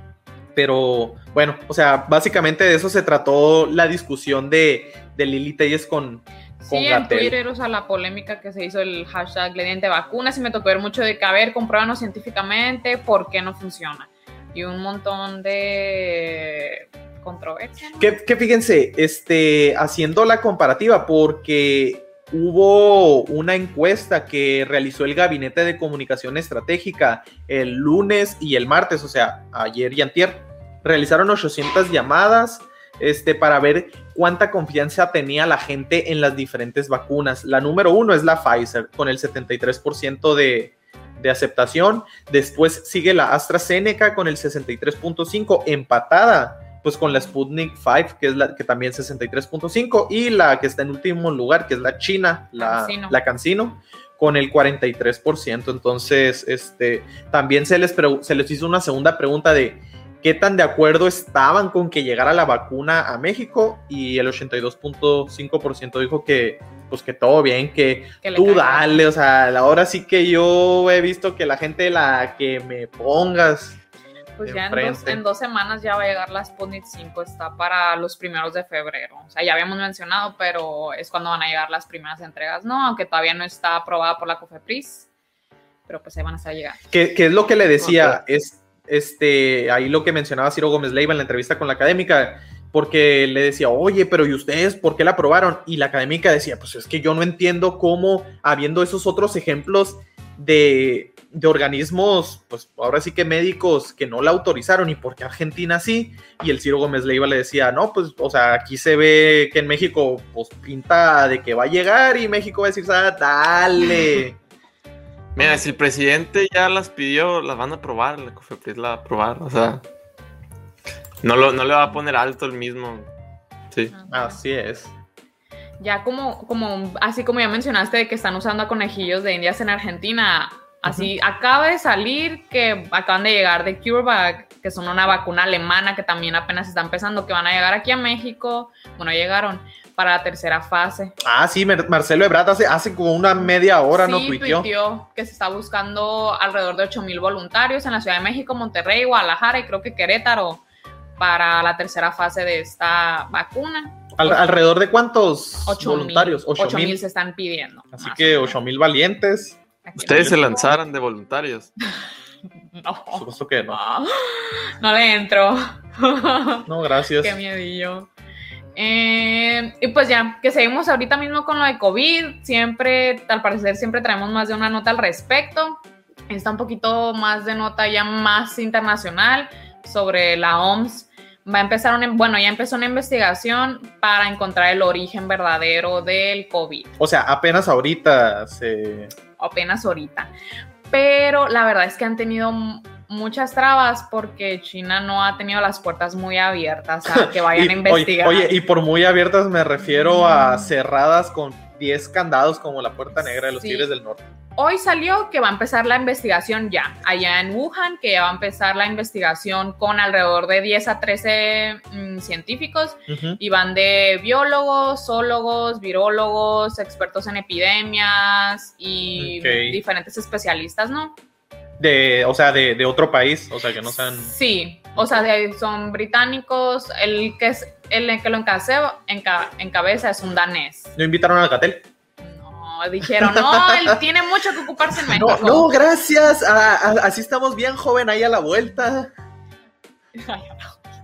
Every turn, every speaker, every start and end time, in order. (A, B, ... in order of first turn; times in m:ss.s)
0:00.6-0:07.3 A
0:06.6-0:18.2 B
0:18.0-1:13.8 A
0:52.6-0:53.2 B
1:08.2-1:09.1 B
1:14.4-1:25.1 B
1:14.4-1:15.2 A
1:25.9-1:26.8 B
1:26.9-1:54.4 A
1:27.8-1:28.2 C
1:55.4-1:59.8 C
1:55.4-1:55.7 B
2:01.2-2:03.1 C
2:03.9-2:04.4 B
2:04.1-2:04.9 A
2:05.8-2:21.1 B
2:21.2-2:24.7 A
2:23.9-2:30.6 B
2:31.2-2:34.4 B
2:34.2-2:37.0 A
2:35.7-2:38.6 B
2:37.9-2:39.6 A
2:39.8-2:40.8 B
2:40.0-2:41.7 C
2:40.1-2:40.7 A
2:42.7-2:46.7 B
2:43.1-2:43.8 A
2:46.7-2:47.4 A
2:47.2-2:48.1 B
2:48.8-3:06.9 B
3:07.0-3:09.1 A
3:09.4-3:10.3 B
3:10.9-3:18.6 B
3:17.1-3:24.2 A
3:20.0-3:20.6 B
3:23.2-3:23.9 B
3:24.6-3:41.2 B
3:33.1-3:33.4 A
3:39.2-3:39.8 A
3:41.8-3:44.3 A
3:44.2-3:50.9 B
3:45.0-3:45.2 A
3:51.0-3:51.8 A
3:52.2-3:55.7 B
3:53.2-3:54.0 A
3:55.1-3:59.1 A
4:00.2-4:00.8 B